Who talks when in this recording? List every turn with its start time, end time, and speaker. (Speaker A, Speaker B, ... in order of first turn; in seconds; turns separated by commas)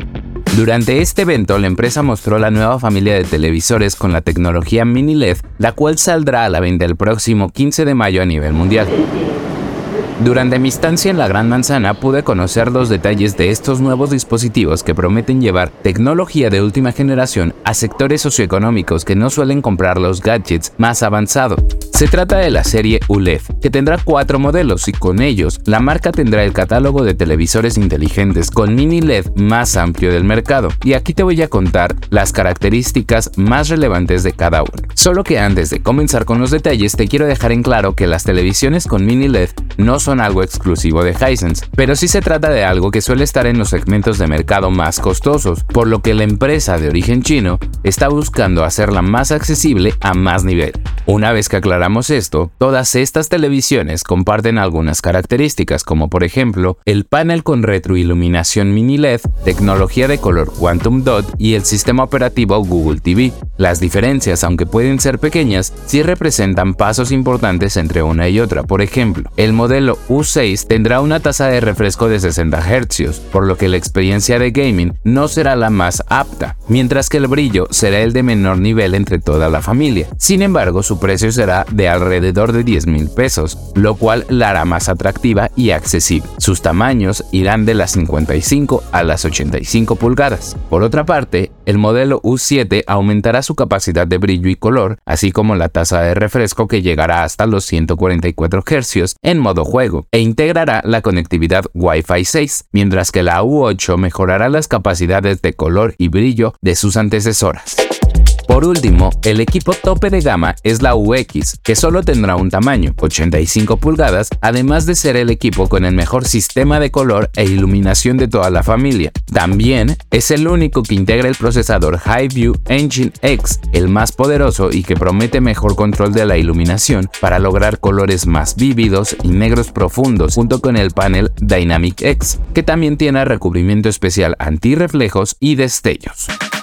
Speaker A: 0.5-9.1, Speaker A: 10.2-107.9, Speaker A: 108.5-136.3